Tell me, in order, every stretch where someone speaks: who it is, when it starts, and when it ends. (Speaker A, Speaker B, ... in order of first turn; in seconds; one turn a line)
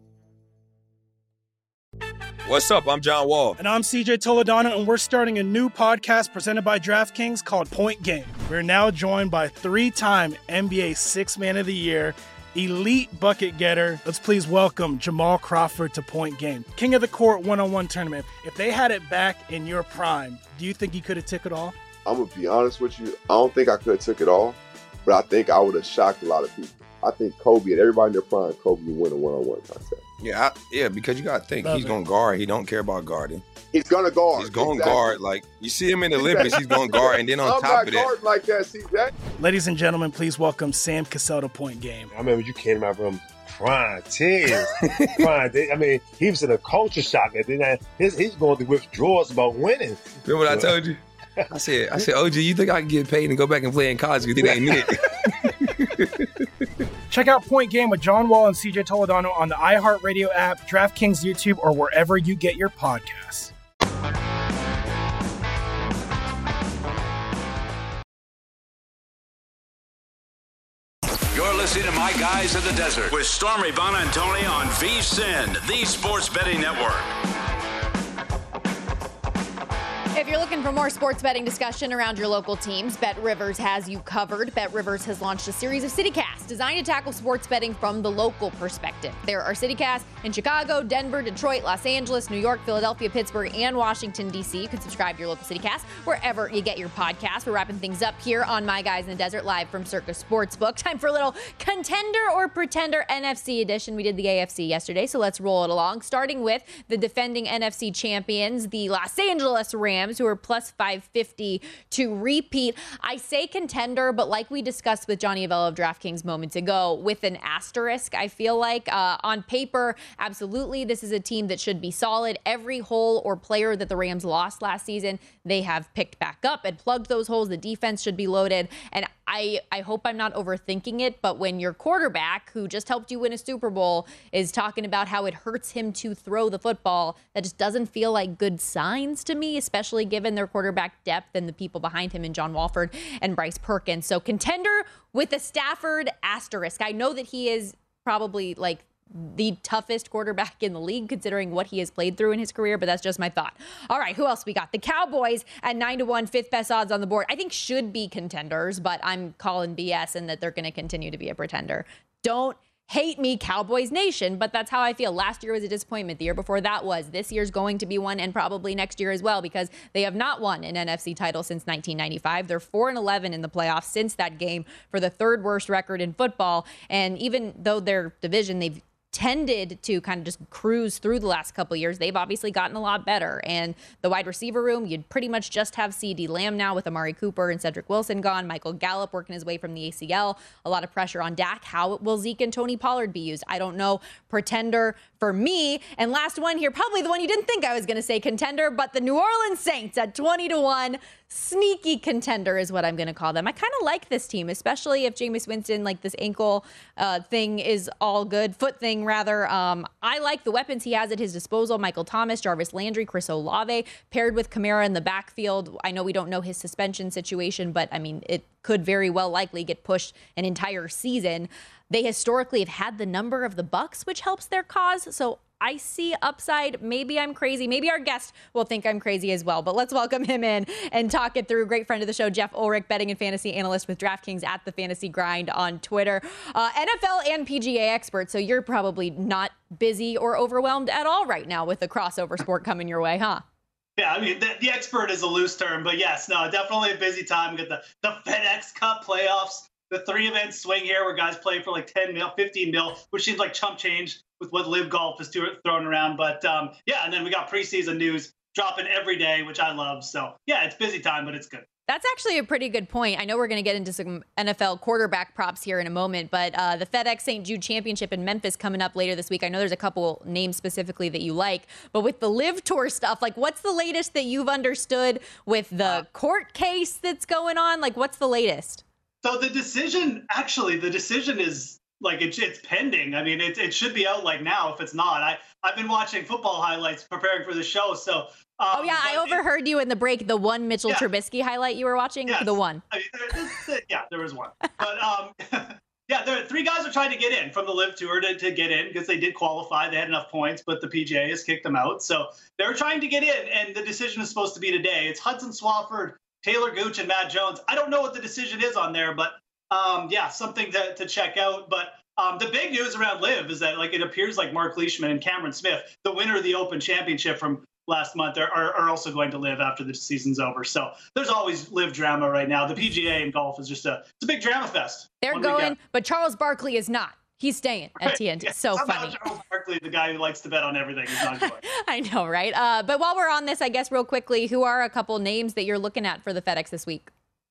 Speaker A: 2.5-3.6
Speaker B: 3.6-21.7
Speaker C: 22.1-30.0
Speaker A: 30.2-33.4
Speaker B: 31.6-31.9
Speaker C: 33.7-35.1
Speaker A: 34.3-38.1
Speaker C: 36.1-39.1
Speaker B: 39.4-42.1
Speaker D: 42.1-50.7
Speaker A: 50.2-51.0
Speaker A: 51.5-55.0
Speaker B: 57.1-63.5
Speaker E: 71.3-77.1
Speaker F: 80.1-243.4
Speaker G: 244.0-261.6
Speaker F: 261.9-278.8
Speaker G: 279.2-289.4
Speaker F: 288.7-292.8
Speaker G: 292.2-325.8
Speaker F: 325.2-329.4
Speaker G: 328.0-331.6
Speaker F: 331.2-337.1